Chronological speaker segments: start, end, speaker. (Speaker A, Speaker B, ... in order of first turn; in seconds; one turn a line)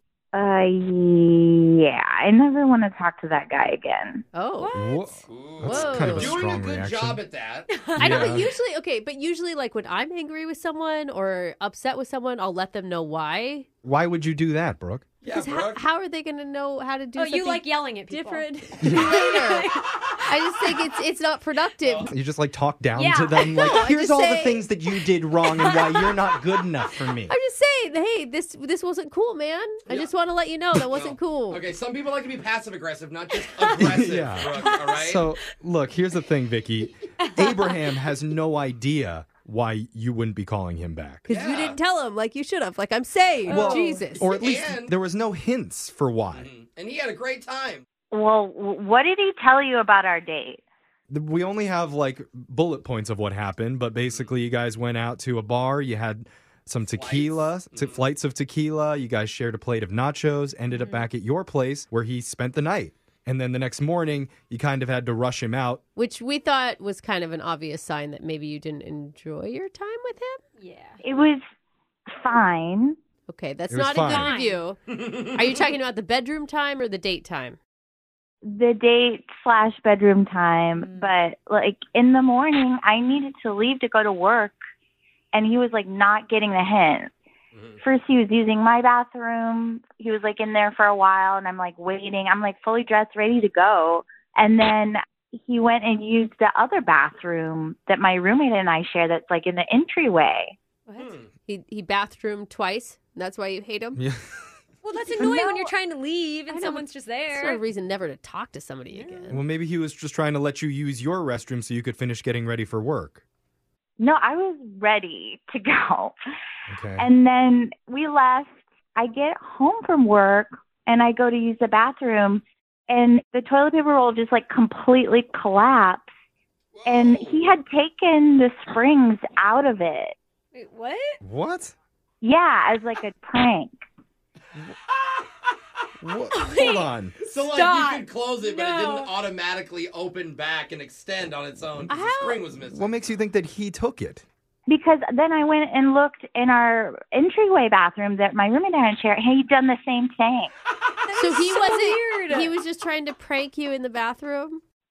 Speaker A: 0.3-4.2
Speaker B: 4.3-4.7
Speaker C: 4.6-5.0
Speaker D: 4.7-7.2
Speaker E: 5.3-7.7
Speaker B: 5.6-6.4
Speaker C: 7.7-8.2
Speaker D: 8.0-8.5
Speaker B: 8.0-13.7
Speaker D: 13.8-15.1
Speaker E: 15.2-15.8
Speaker B: 15.3-19.7
Speaker C: 17.1-20.3
Speaker D: 18.8-19.2
Speaker B: 20.3-22.1
Speaker E: 21.8-22.1
Speaker D: 22.1-27.3
Speaker C: 22.9-23.6
Speaker B: 23.6-24.7
Speaker B: 27.3-31.6
Speaker E: 30.9-35.3
Speaker D: 33.7-41.3
Speaker C: 37.2-37.8
Speaker B: 41.3-44.3
Speaker E: 41.3-41.8
Speaker D: 43.5-46.5
Speaker C: 43.6-44.0
Speaker E: 44.2-44.9
Speaker E: 46.3-47.9
Speaker A: 48.1-50.6
Speaker D: 51.1-65.8
Speaker E: 54.1-54.3
Speaker E: 56.9-58.0
Speaker B: 66.0-70.4
Speaker C: 70.6-71.0
Speaker A: 71.0-71.4
Speaker A: 72.2-73.0
Speaker B: 73.3-74.8
Speaker D: 73.7-74.3
Speaker C: 74.2-74.7
Speaker E: 74.9-75.6
Speaker B: 75.3-77.6
Speaker A: 78.5-84.5
Speaker A: 85.3-87.1
Speaker E: 87.5-87.8
Speaker A: 87.8-100.6
Speaker C: 100.9-101.1
Speaker E: 101.0-101.3
Speaker B: 101.5-104.0
Speaker D: 104.0-104.2
Speaker C: 104.8-107.6
Speaker A: 105.1-105.7
Speaker B: 106.5-109.4
Speaker C: 108.9-109.2
Speaker D: 109.3-113.2
Speaker A: 114.0-116.2
Speaker D: 116.7-117.1
Speaker A: 117.0-126.1
Speaker E: 126.7-127.5
Speaker A: 126.9-130.2
Speaker C: 130.6-131.2
Speaker D: 131.2-131.7
Speaker A: 132.2-133.8
Speaker D: 136.0-137.2
Speaker C: 136.3-136.9
Speaker E: 137.2-143.0
Speaker C: 137.5-139.1
Speaker B: 141.9-142.4
Speaker D: 142.7-144.2
Speaker A: 144.7-150.5
Speaker C: 151.1-152.5
Speaker B: 151.2-154.6